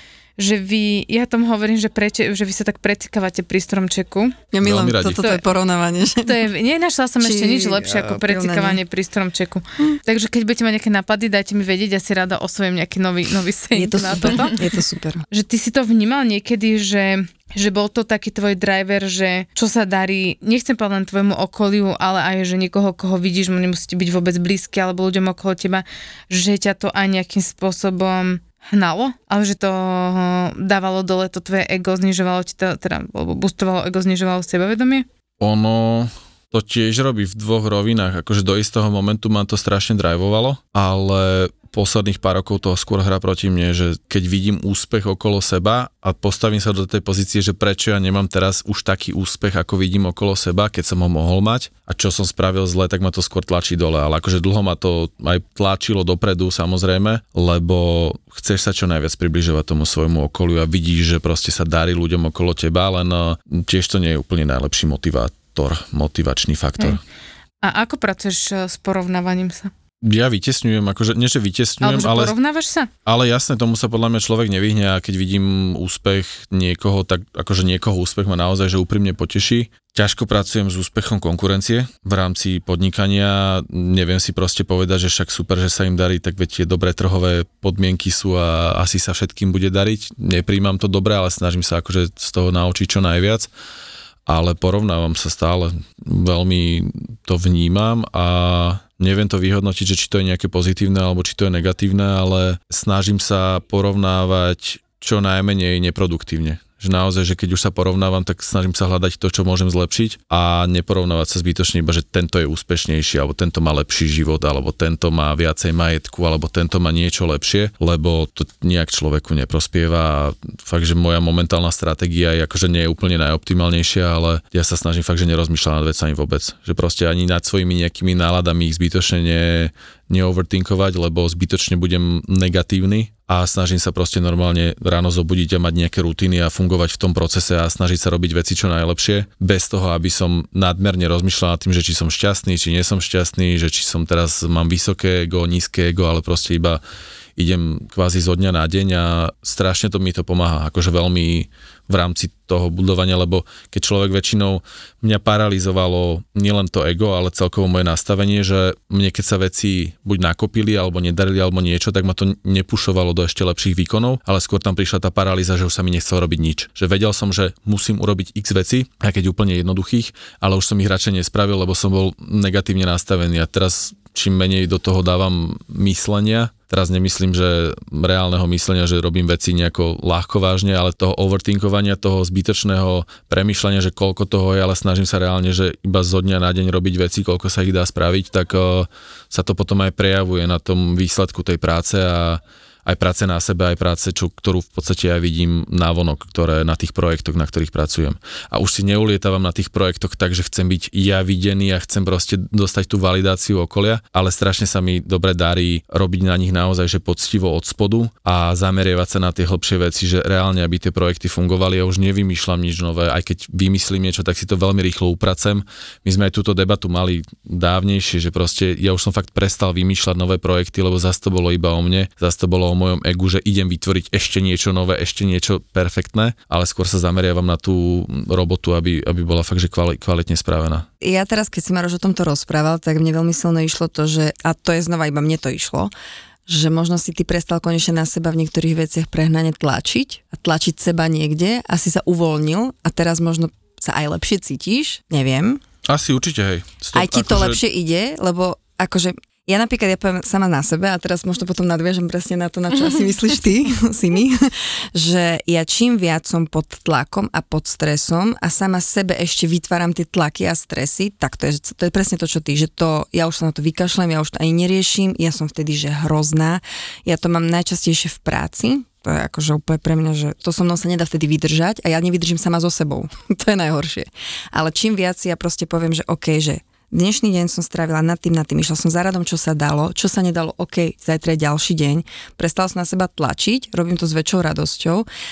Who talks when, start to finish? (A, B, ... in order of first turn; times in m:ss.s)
0:00.4-0:04.4 A
0:04.5-0:06.4 B
0:04.6-0:05.2 C
0:05.1-0:05.4 A
0:06.2-0:14.6 A
0:07.2-0:08.8 B
0:13.7-0:15.2 B
0:15.3-0:35.1 A
0:35.4-1:07.0 C
1:07.6-1:09.7 A
1:10.0-1:12.3 C
1:11.8-1:12.9 A
1:13.1-1:33.5 C
1:34.3-2:26.8 C
2:27.4-3:50.9 C
3:51.0-3:55.9 B
3:56.5-4:05.6 B
4:05.9-4:07.6 C
4:06.9-4:45.1 B